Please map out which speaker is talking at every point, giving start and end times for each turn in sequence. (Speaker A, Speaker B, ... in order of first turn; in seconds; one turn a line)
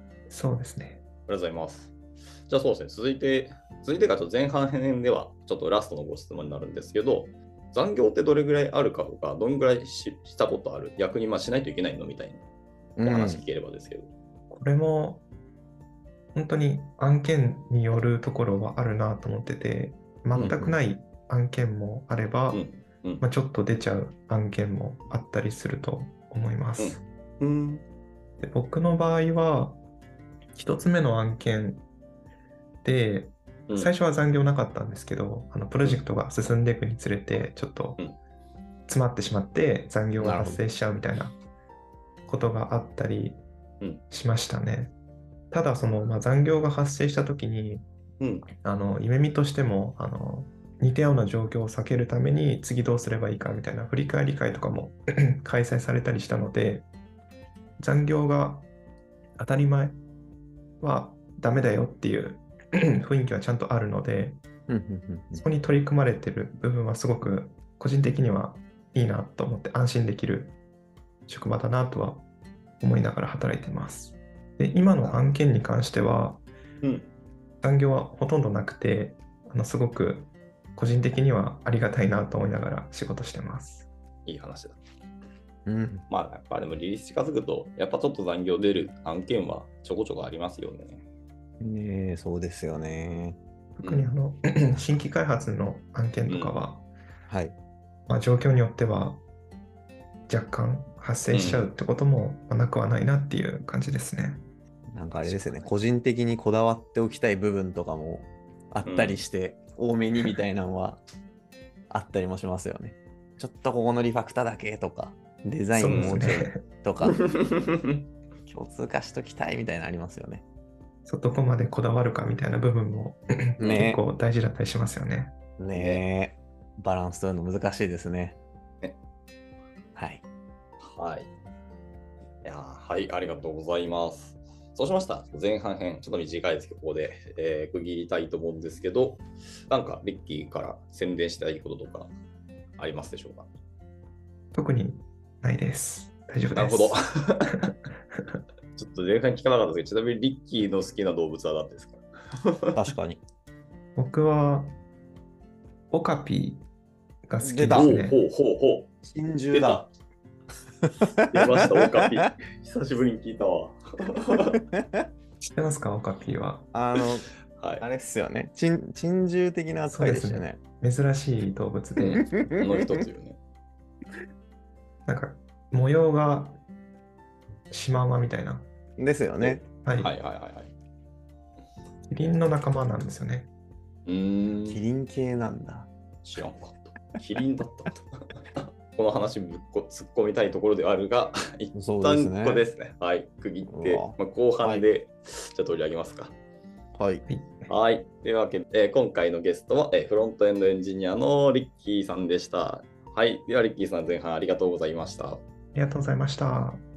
Speaker A: 0.3-1.0
Speaker B: 1.3-1.9
Speaker B: 2.5-12.4
Speaker C: 13.0-13.4
Speaker B: 13.0-14.1
Speaker A: 14.5-15.2
Speaker A: 16.3-22.6
Speaker C: 20.4-20.8
Speaker B: 22.5-23.2
Speaker A: 23.2-27.0
Speaker B: 26.8-27.9
Speaker A: 28.4-29.8
Speaker A: 30.6-31.9
Speaker A: 32.8-38.0
Speaker A: 38.9-41.4
Speaker C: 40.2-40.6
Speaker A: 42.3-43.4
Speaker A: 44.1-44.9
Speaker A: 45.5-47.9
Speaker B: 48.2-48.5
Speaker A: 48.6-56.9
Speaker A: 57.8-58.7
Speaker A: 59.4-60.0
Speaker A: 60.8-62.5
Speaker A: 63.0-64.4
Speaker C: 64.7-65.4
Speaker A: 65.4-70.6
Speaker A: 71.3-72.3
Speaker A: 72.8-76.4
Speaker B: 76.8-77.1
Speaker A: 77.6-83.9
Speaker B: 84.3-84.8
Speaker C: 85.7-86.1
Speaker B: 86.1-91.0
Speaker C: 91.6-93.4
Speaker A: 93.8-96.9
Speaker B: 93.8-94.1
Speaker B: 96.3-96.6
Speaker C: 97.3-97.6
Speaker A: 98.1-99.2
Speaker A: 100.3-104.4
Speaker B: 101.3-101.7
Speaker C: 104.9-111.0
Speaker B: 105.2-105.8
Speaker B: 108.8-109.2
Speaker C: 111.9-117.2
Speaker A: 115.7-116.6
Speaker B: 115.9-116.2
Speaker B: 117.1-118.0
Speaker C: 118.5-120.4
Speaker A: 121.0-125.3
Speaker C: 123.6-124.0
Speaker C: 125.6-128.4
Speaker B: 125.7-126.0
Speaker C: 129.9-130.2
Speaker B: 130.8-131.3
Speaker B: 132.4-142.1
Speaker B: 142.8-143.5
Speaker A: 144.5-147.0
Speaker B: 146.6-147.7
Speaker B: 148.8-152.8
Speaker C: 152.8-153.2
Speaker A: 154.0-154.7
Speaker A: 155.9-156.7
Speaker A: 157.3-158.2
Speaker C: 157.4-158.0
Speaker B: 157.7-158.9
Speaker C: 159.0-159.8
Speaker B: 159.5-159.9
Speaker C: 160.9-161.4
Speaker B: 161.3-164.6
Speaker A: 165.4-166.7
Speaker C: 166.7-167.3
Speaker B: 167.6-167.8
Speaker C: 167.8-170.6
Speaker A: 169.9-172.2
Speaker B: 172.0-173.4
Speaker C: 172.3-172.6
Speaker A: 175.1-176.6
Speaker A: 177.7-178.7
Speaker C: 179.0-179.7
Speaker B: 179.4-180.7
Speaker A: 179.8-180.1
Speaker A: 182.1-183.5
Speaker B: 184.1-184.8
Speaker C: 184.7-185.9
Speaker B: 186.2-196.3
Speaker C: 191.7-192.7
Speaker C: 193.7-194.8
Speaker C: 196.9-197.2
Speaker A: 197.3-197.7
Speaker B: 197.7-205.4
Speaker A: 205.7-206.8